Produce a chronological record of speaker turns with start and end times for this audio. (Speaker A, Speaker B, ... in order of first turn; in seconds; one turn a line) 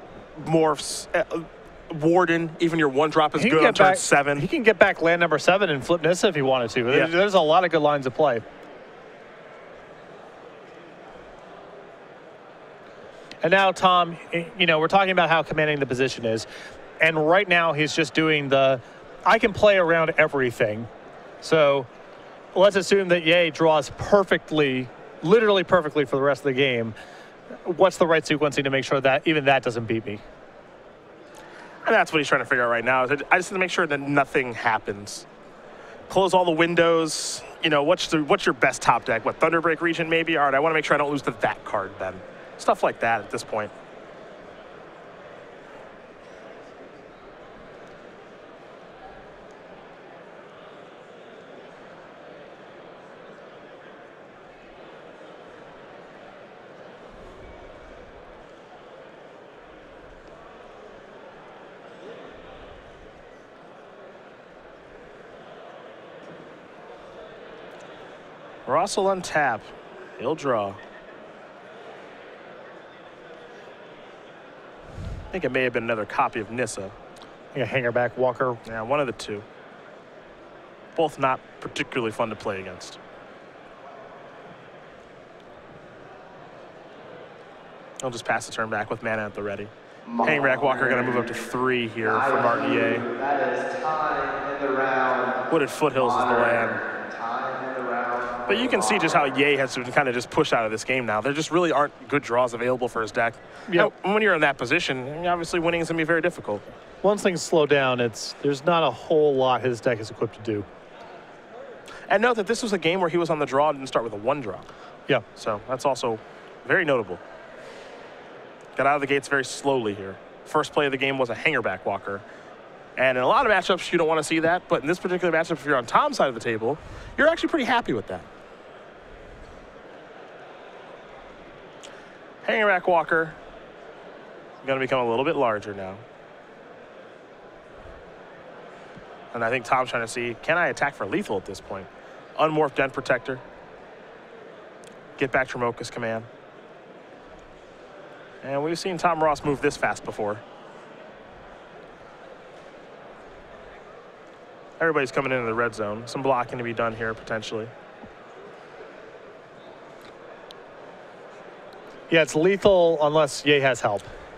Speaker A: 0.3-4.5
Speaker B: 3.4-8.4
Speaker B: 13.4-16.5
Speaker B: 17.0-20.9
Speaker B: 21.4-21.9
Speaker B: 22.5-26.9
Speaker B: 27.6-30.2
Speaker A: 31.8-35.2
Speaker A: 36.1-43.7
Speaker A: 68.7-70.8
Speaker A: 75.3-76.9
Speaker B: 77.5-78.6
Speaker A: 78.7-79.4
Speaker A: 81.0-83.0
Speaker A: 88.0-89.7
Speaker C: 90.0-91.5
Speaker A: 90.2-93.0
Speaker C: 92.0-99.4
Speaker A: 95.5-96.8
Speaker A: 98.5-106.7
Speaker B: 107.0-110.7
Speaker A: 112.1-114.7
Speaker A: 115.3-117.2
Speaker A: 118.8-122.2
Speaker A: 123.0-128.3
Speaker A: 132.4-133.4
Speaker A: 134.6-136.0
Speaker A: 139.3-143.4
Speaker A: 145.2-146.3
Speaker A: 148.4-150.4
Speaker A: 154.8-157.7
Speaker B: 162.1-164.1